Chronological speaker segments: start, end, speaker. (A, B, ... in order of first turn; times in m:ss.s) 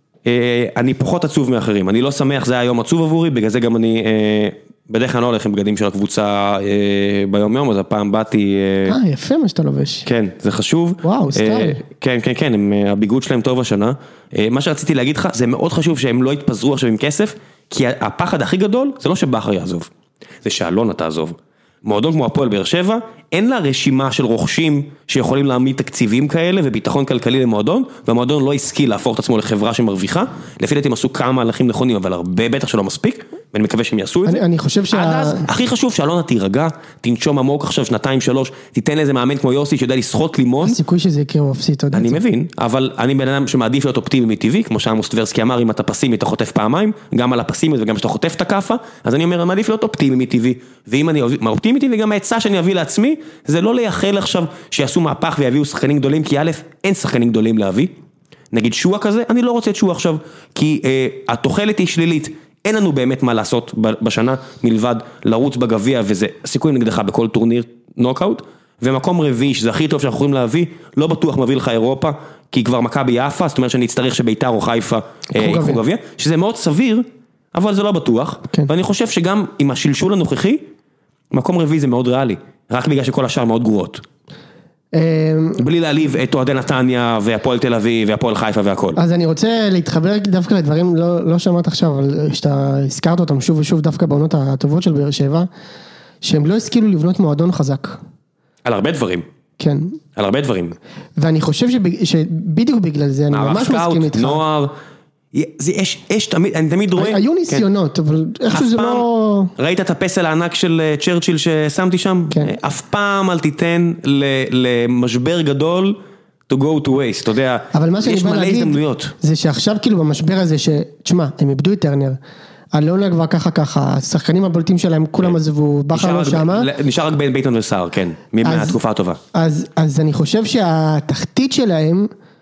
0:00.2-0:09.0 A
0:08.9-0:10.0 B
0:10.0-0:19.9 A
0:11.0-0:11.8 B
0:20.4-0:40.8 A
0:34.2-0:35.5 B
0:40.6-0:42.2 B
0:41.9-0:57.9 A
0:58.5-1:20.6 A
1:15.3-1:15.8 B
1:21.3-1:24.0 A
1:24.9-1:25.6 B
1:25.6-1:29.0 A
1:29.0-1:35.5 B
1:36.2-1:38.0 B
1:38.6-1:39.2 A
1:39.6-1:40.0 B
1:40.2-1:40.8 A
1:41.2-1:44.4 B
1:43.3-1:44.7 A
1:45.3-1:47.6 A
1:47.0-1:49.5 B
1:48.5-1:56.0 A
1:56.5-1:59.1 A
1:57.7-2:02.2 B
2:02.7-2:06.7 B
2:05.9-2:09.2 A
2:08.4-2:08.8 B
2:09.3-2:12.1 B